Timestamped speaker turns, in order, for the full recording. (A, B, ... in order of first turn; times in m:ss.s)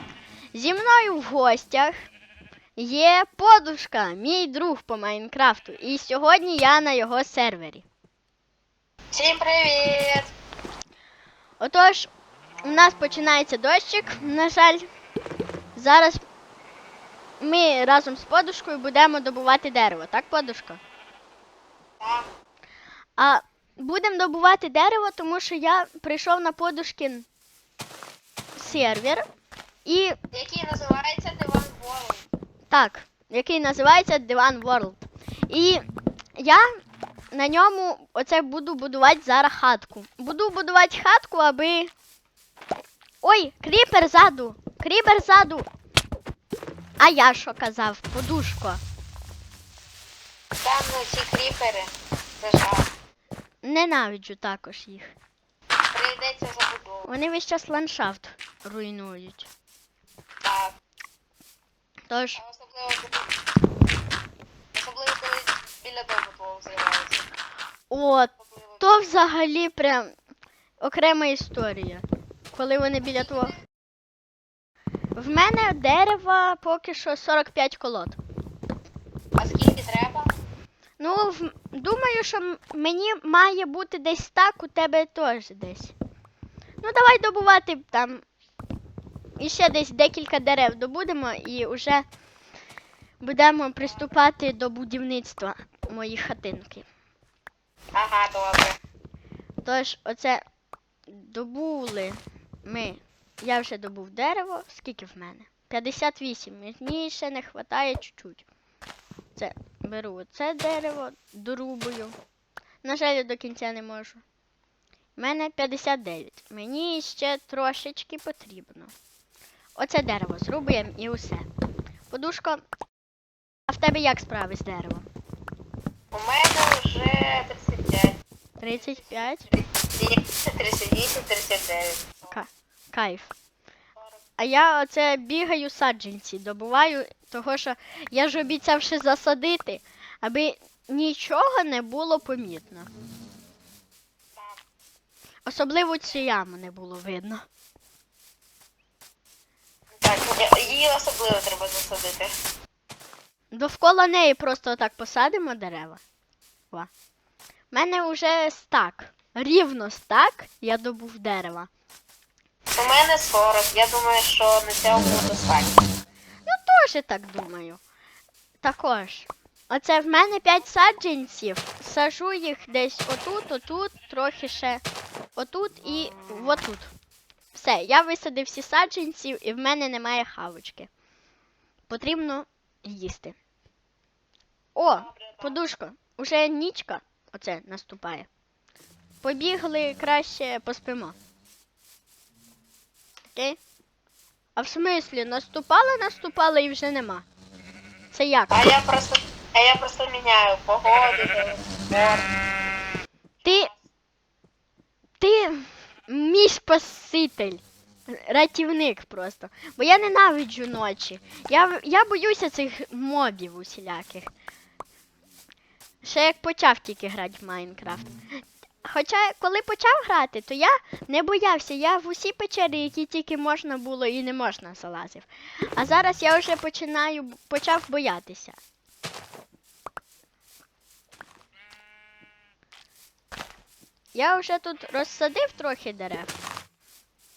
0:00.5-0:02.0 A
0:02.8-0:07.8 A
0:09.1-0:10.3 B
0:11.6-0:12.1 A
0:12.6-0:14.9 A
0:15.7-0:16.2 A
0:17.4-0:20.8 A
0:22.0-0:22.3 B
0:23.2-0:27.3 A
0:28.6-0:29.2 A
0:29.8-0:30.2 A
0:30.3-0:32.3 B
0:32.7-0:35.9 A
0:36.4-0:36.7 A
0:37.3-0:41.9 A
0:43.2-0:45.7 A
0:47.0-0:48.8 A
0:50.6-0:52.9 B
0:53.6-0:55.2 A
0:55.9-0:57.1 B
0:57.1-0:59.5 A
1:00.4-1:00.7 B
1:02.1-1:02.4 A
1:02.4-1:03.3 B
1:04.7-1:07.2 B
1:07.9-1:10.1 A
1:08.4-1:08.8 B
1:10.8-1:13.6 A
1:15.1-1:18.2 A
1:19.4-1:20.3 B
1:21.0-1:25.9 A
1:26.8-1:28.2 A
1:29.4-1:32.0 A
1:33.2-1:36.9 A
1:37.9-1:38.8 B
1:39.6-1:40.4 A
1:41.1-1:48.4 A
1:49.4-1:52.2 A
1:52.8-1:54.2 A
1:55.2-1:58.9 A
1:59.8-2:01.5 A
2:02.1-2:02.6 A
2:03.7-2:05.1 A
2:06.1-2:12.4 B
2:08.6-2:09.4 A
2:12.3-2:13.3 A
2:13.9-2:14.3 B
2:14.4-2:22.9 A
2:24.3-2:24.6 B
2:25.4-2:27.4 A
2:30.0-2:32.3 B
2:33.5-2:36.0 A
2:37.7-2:41.7 A
2:42.8-2:45.9 B
2:46.4-2:47.8 A
2:48.6-2:54.8 A
2:55.4-2:56.9 A
2:57.5-3:00.9 A
3:01.9-3:03.4 A
3:04.8-3:08.3 A
3:04.9-3:05.6 B
3:09.2-3:11.2 A
3:14.6-3:17.2 A
3:18.1-3:18.7 A
3:18.5-3:22.3 B
3:23.4-3:23.8 B
3:23.4-3:23.7 A
3:25.2-3:34.3 A
3:36.0-3:38.1 A
3:38.8-3:48.6 A
3:54.1-3:56.4 A